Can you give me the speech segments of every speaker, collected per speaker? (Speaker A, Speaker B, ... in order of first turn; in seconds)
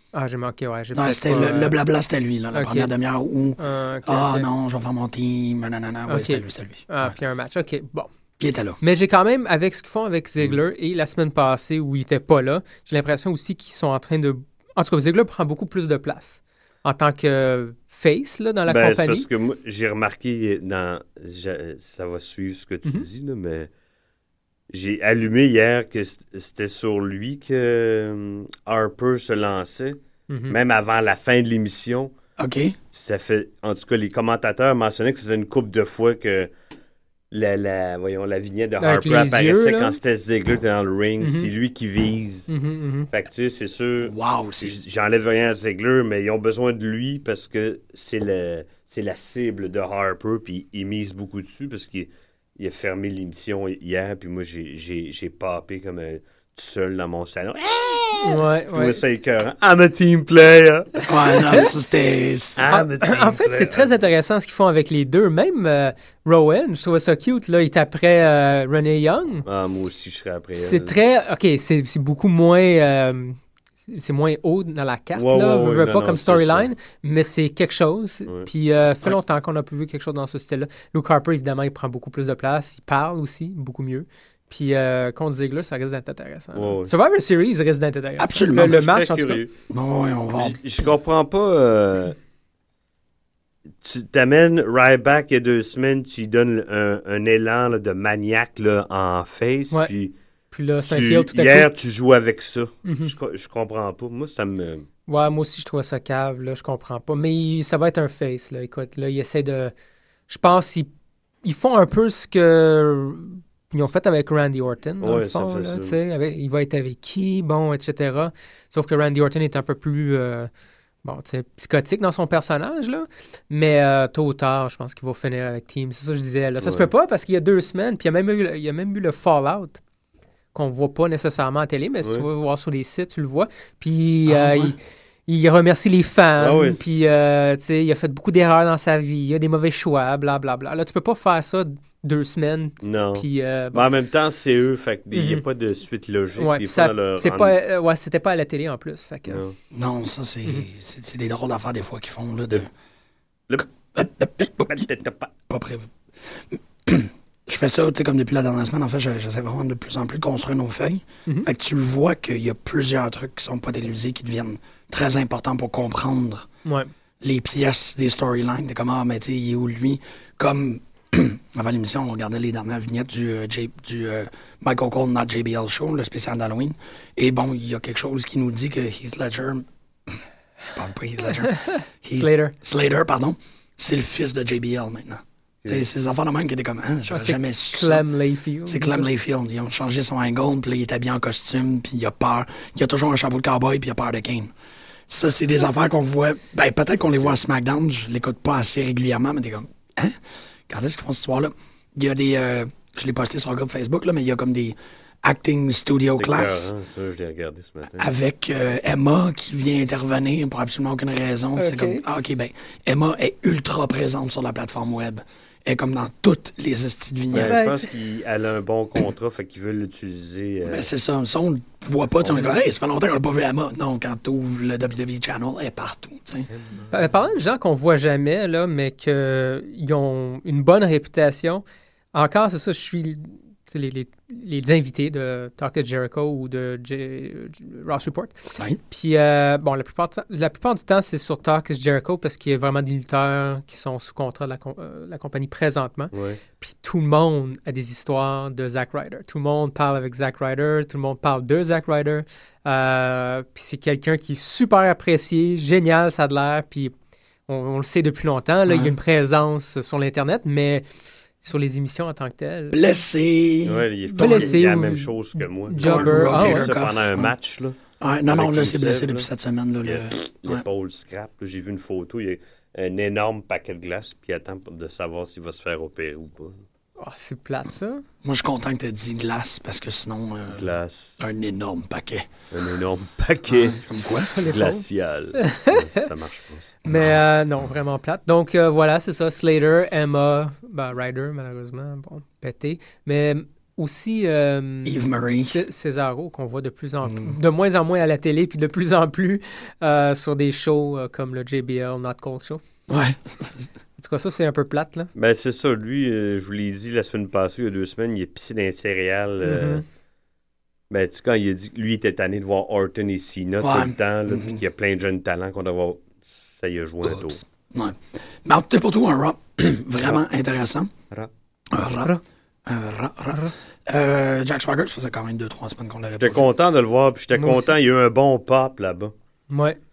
Speaker A: 0.1-1.8, 2.5-2.9, 3.6-4.5, 6.1-8.1, 8.8-19.3, 30.3-30.6, 38.8-40.0, 41.2-41.5, 42.5-43.1, 58.2-59.0, 62.7-69.5, 70.5-73.4, 73.9-89.4, 100.5-101.7, 102.8-103.1, 105.1-109.7, 110.3-110.9, 111.4-120.5, 121.0-129.8, 130.5-143.9, 145.1-145.4, 146.4-149.4, 166.6-166.9, 181.4-182.6, 187.1-189.1, 211.6-212.0, 217.4-217.8, 226.9-256.9, 257.5-260.9, 261.4-262.8, 264.1-266.7, 277.0-278.0, 284.2-284.8, 285.4-286.0, 286.9-302.6, 304.0-305.1, 309.4-309.8, 327.4-327.7, 329.5-329.8
Speaker B: 0.9-7.1, 8.4-8.8, 32.4-32.8, 44.0-44.8, 61.1-62.7, 88.2-88.8, 89.7-90.6, 134.3-134.8, 149.7-152.7, 153.6-154.9, 155.5-166.5, 167.2-180.2, 180.8-188.0, 188.7-194.5, 195.1-200.2, 200.7-206.7, 208.0-217.6, 220.7-226.5, 258.7-258.9, 262.7-264.6, 265.8-267.3, 268.0-270.6, 278.2-282.3, 283.5-284.3, 286.9-287.2, 294.9-295.6, 297.0-297.4, 302.9-303.7, 313.6-314.6, 317.0-320.9, 321.7-326.5
Speaker C: 18.7-23.7, 24.7-32.1, 32.9-36.5, 37.3-42.5, 43.1-61.1, 62.6-63.9, 69.5-71.0, 75.1-76.7, 86.5-86.9, 88.5-89.5, 90.4-92.2, 93.8-100.1, 100.9-104.9, 115.0-116.0, 126.6-126.9, 136.4-137.1, 142.8-147.6, 149.3-149.6, 154.6-155.3, 206.2-208.1, 217.3-220.9, 226.6-226.9, 246.1-246.4, 263.6-267.8, 268.3-269.3, 269.9-276.6, 280.5-281.1, 282.5-286.8, 305.1-309.8, 310.9-317.4, 326.2-329.1